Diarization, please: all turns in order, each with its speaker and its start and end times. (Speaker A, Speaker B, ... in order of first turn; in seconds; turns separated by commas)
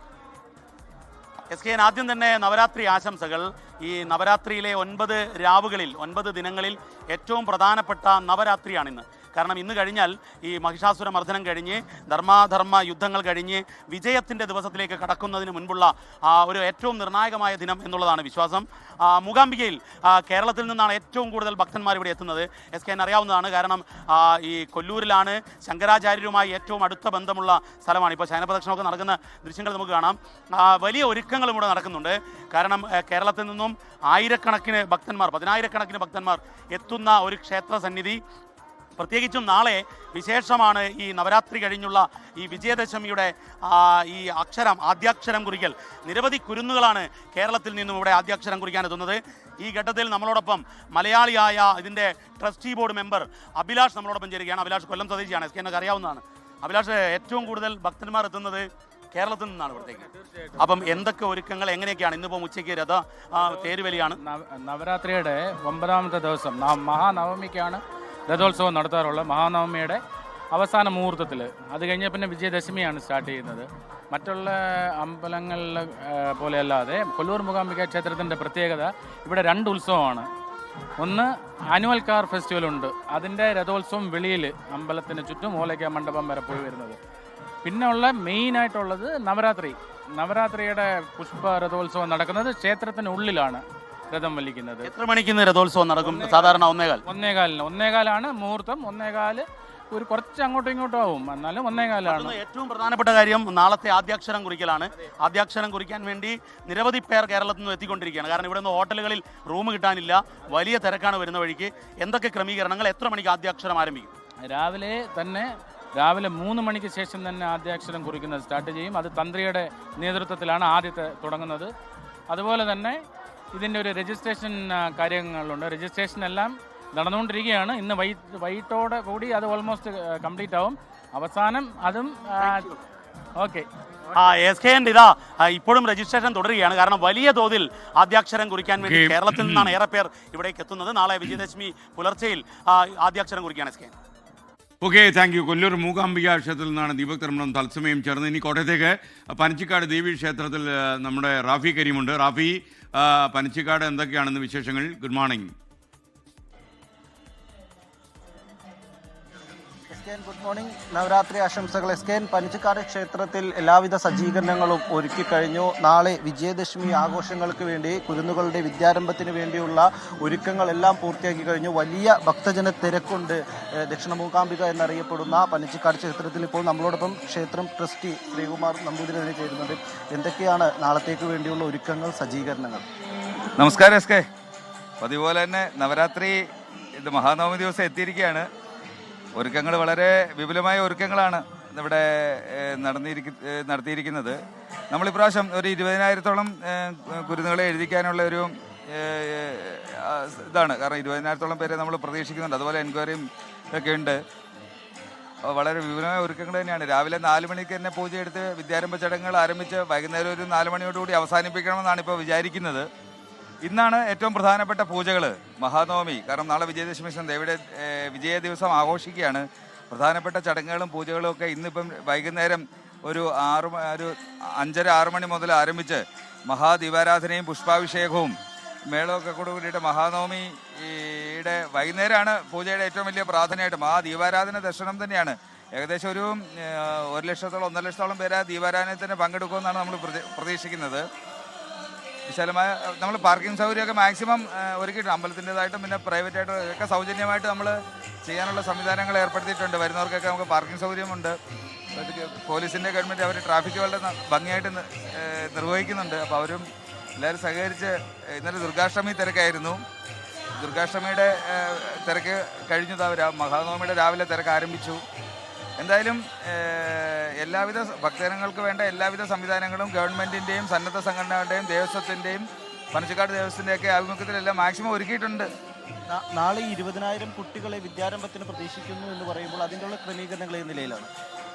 Speaker A: 1.5-38.2, Speaker A: 39.0-64.2, Speaker B: 64.2-70.0, Speaker B: 70.5-80.3, Speaker B: 81.0-87.0, Speaker B: 87.6-94.9, Speaker A: 94.8-97.0, Speaker B: 96.0-102.4, Speaker A: 102.0-114.1, Speaker B: 114.5-115.5, Speaker B: 116.0-121.7, Speaker B: 122.3-123.0, Speaker B: 123.5-132.7, Speaker A: 132.4-132.7, Speaker B: 133.4-133.7, Speaker A: 134.2-143.9, Speaker C: 138.8-139.7, Speaker C: 144.8-155.5, Speaker D: 159.9-182.8, Speaker E: 183.6-184.2, Speaker E: 185.0-186.4, Speaker E: 187.0-188.5, Speaker E: 189.4-194.4, Speaker E: 194.9-204.2, Speaker E: 205.5-212.9, Speaker E: 213.6-228.3, Speaker E: 228.9-241.0, Speaker E: 242.3-251.3, Speaker E: 251.9-256.6, Speaker E: 257.2-259.8, Speaker E: 260.6-265.0, Speaker E: 265.8-275.5, Speaker D: 276.1-281.1